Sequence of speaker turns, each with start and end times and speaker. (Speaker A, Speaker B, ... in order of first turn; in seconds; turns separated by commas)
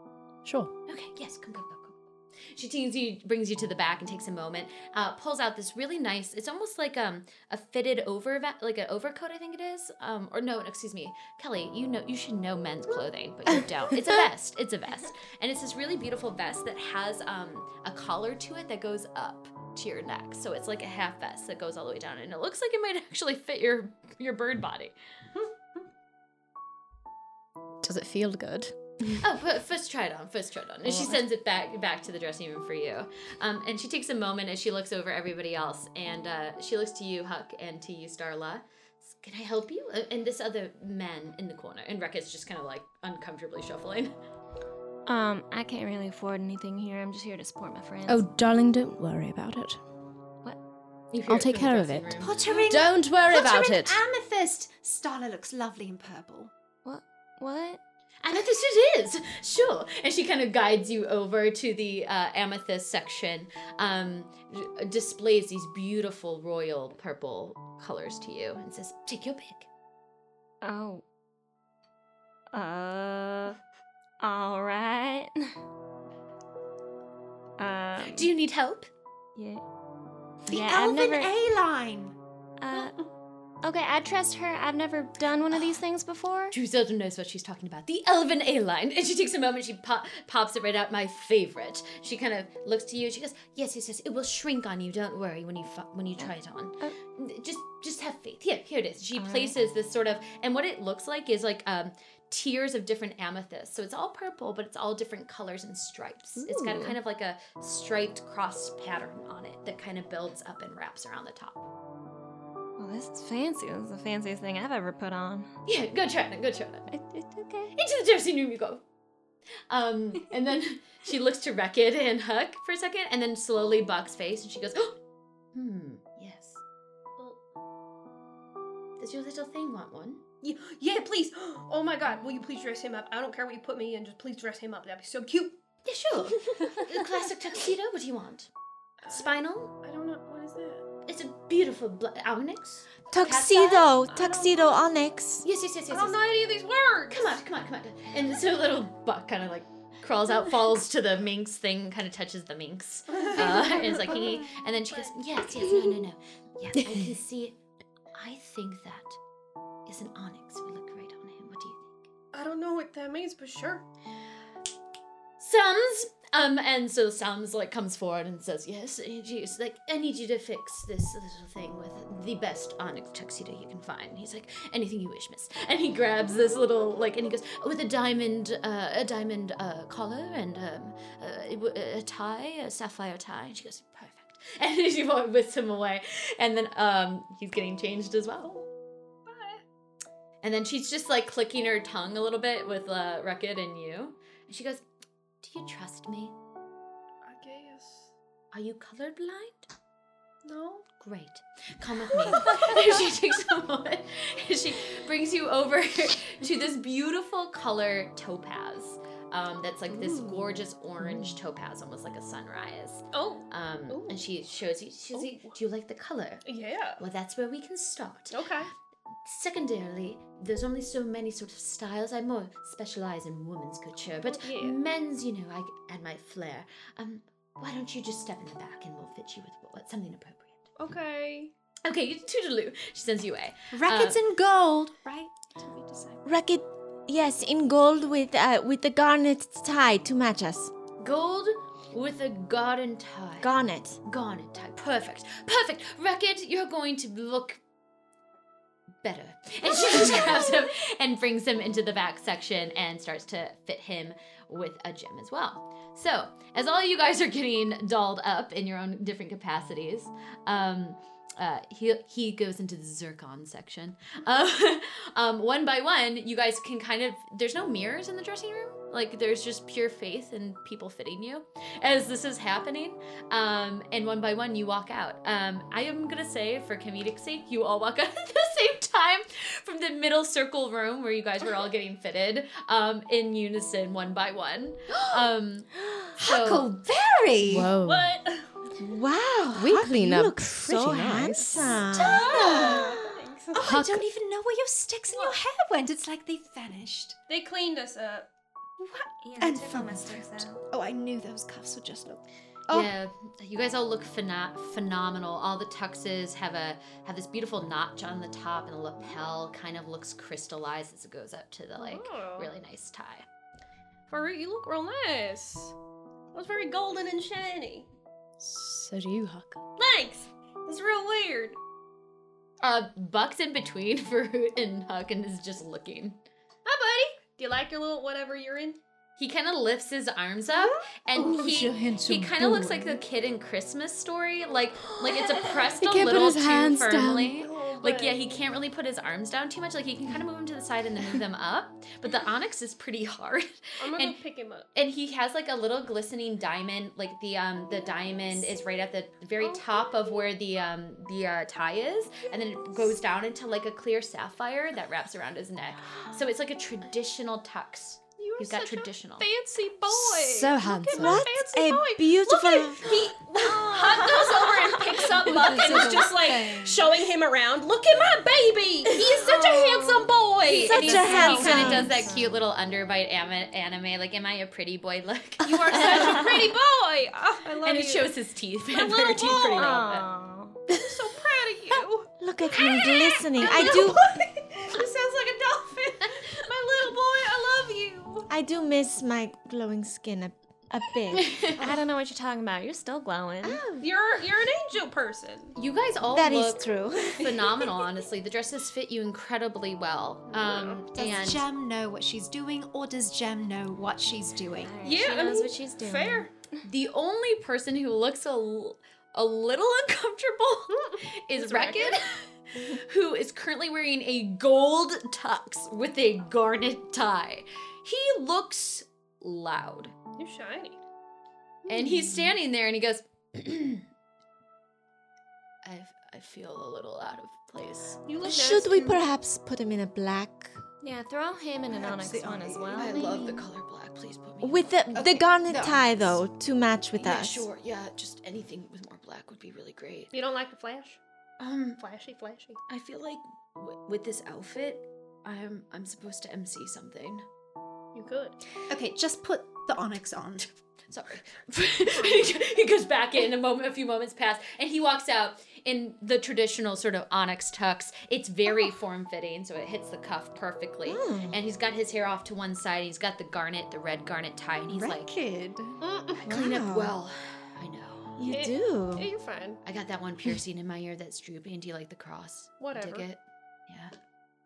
Speaker A: 0.4-0.7, Speaker B: 0.9-24.9, Speaker C: 13.5-14.3, Speaker A: 27.8-28.7, Speaker B: 29.2-44.1, Speaker A: 30.8-31.2, Speaker D: 45.0-48.3, Speaker A: 48.0-49.8, Speaker B: 51.1-52.4, Speaker A: 51.2-54.0, Speaker C: 52.2-56.5, Speaker D: 56.8-57.8, Speaker B: 58.2-69.7, Speaker D: 70.6-71.0, Speaker D: 72.5-73.6, Speaker D: 74.2-75.3, Speaker D: 77.6-78.3, Speaker B: 78.0-78.9, Speaker D: 79.3-79.6, Speaker D: 80.5-81.3, Speaker C: 80.5-82.2, Speaker D: 82.6-83.0, Speaker D: 83.6-86.5, Speaker B: 86.5-111.7, Speaker D: 99.1-99.5, Speaker D: 106.3-107.0, Speaker D: 112.8-115.5, Speaker B: 115.7-116.9, Speaker D: 116.9-117.7, Speaker B: 117.7-118.8, Speaker B: 119.7-125.0, Speaker B: 125.5-126.6, Speaker B: 129.0-130.2, Speaker E: 130.4-135.6, Speaker B: 135.8-138.5, Speaker E: 139.0-140.8, Speaker B: 139.1-139.7, Speaker B: 141.1-143.9, Speaker F: 143.1-145.4, Speaker E: 144.1-144.6, Speaker B: 145.4-146.2, Speaker E: 145.9-147.4, Speaker B: 147.1-157.6, Speaker E: 153.2-154.3, Speaker B: 158.1-159.2, Speaker B: 159.8-162.1, Speaker E: 162.3-163.8, Speaker B: 165.4-188.7, Speaker E: 189.2-189.6, Speaker B: 190.4-194.8, Speaker B: 195.4-196.3, Speaker E: 197.2-198.1, Speaker B: 198.5-199.7, Speaker E: 200.4-200.8, Speaker B: 201.0-216.4, Speaker E: 202.3-202.8, Speaker E: 210.0-210.5, Speaker E: 213.1-214.3, Speaker E: 215.1-215.5, Speaker E: 216.4-217.0, Speaker B: 217.0-218.4, Speaker E: 218.3-218.7, Speaker B: 219.2-230.6, Speaker E: 224.2-224.8, Speaker E: 230.8-231.5, Speaker B: 231.8-234.2, Speaker C: 233.7-236.2, Speaker F: 236.2-240.7, Speaker B: 241.0-243.5, Speaker F: 243.4-244.0, Speaker B: 244.0-247.6, Speaker B: 249.0-286.6, Speaker C: 284.9-285.2, Speaker C: 286.2-287.7, Speaker A: 287.4-288.1, Speaker E: 287.8-288.5, Speaker F: 288.8-293.1, Speaker A: 289.5-291.8, Speaker C: 291.9-293.0, Speaker E: 291.9-293.6, Speaker C: 293.5-297.2, Speaker A: 293.6-294.0, Speaker E: 295.1-295.4, Speaker E: 297.3-298.3, Speaker C: 298.8-302.9, Speaker D: 299.2-300.6, Speaker B: 302.7-313.2, Speaker E: 311.8-312.5, Speaker E: 314.1-315.7, Speaker E: 316.3-317.9, Speaker A: 318.4-319.6, Speaker E: 319.8-321.6, Speaker B: 322.6-326.2, Speaker E: 326.6-328.8, Speaker B: 329.2-344.2, Speaker C: 330.6-332.9, Speaker A: 335.7-337.5, Speaker E: 337.4-338.4, Speaker E: 343.8-344.7, Speaker B: 344.7-359.3, Speaker E: 349.4-350.2, Speaker E: 358.2-371.9, Speaker A: 360.5-360.8, Speaker F: 360.9-363.0, Speaker D: 363.7-363.9, Speaker C: 365.2-366.9, Speaker A: 365.5-366.0, Speaker D: 369.1-372.4, Speaker B: 370.5-376.5, Speaker F: 370.7-372.0, Speaker E: 375.4-378.1, Speaker B: 377.6-380.1, Speaker E: 378.7-379.8, Speaker D: 379.5-380.6, Speaker E: 380.7-388.3, Speaker F: 382.2-384.1, Speaker F: 388.3-391.5, Speaker B: 391.1-391.6, Speaker D: 391.5-393.7, Speaker F: 393.4-393.8, Speaker E: 393.8-395.5, Speaker B: 395.5-401.4, Speaker F: 396.1-397.6, Speaker E: 400.3-400.8, Speaker C: 400.9-404.8, Speaker D: 404.6-406.6, Speaker E: 404.8-406.3, Speaker B: 406.6-419.9, Speaker E: 410.8-412.0, Speaker E: 420.1-420.8, Speaker B: 421.7-423.9, Speaker C: 421.7-422.2, Speaker B: 425.6-428.0, Speaker E: 428.1-428.9, Speaker F: 428.2-430.6, Speaker D: 430.8-433.2, Speaker C: 431.7-433.5, Speaker B: 432.7-435.2, Speaker F: 434.4-437.5, Speaker C: 434.9-436.2, Speaker B: 437.0-440.1, Speaker E: 440.1-441.0, Speaker B: 441.4-441.8, Speaker E: 441.8-442.6, Speaker B: 442.7-447.2, Speaker E: 447.9-448.4, Speaker C: 448.7-450.5, Speaker B: 450.9-465.1, Speaker F: 460.8-461.4, Speaker C: 464.7-465.8, Speaker E: 465.8-466.2, Speaker B: 466.2-468.2, Speaker F: 466.2-466.9, Speaker F: 468.2-469.1, Speaker E: 468.3-469.6, Speaker B: 469.6-473.9, Speaker E: 472.6-473.1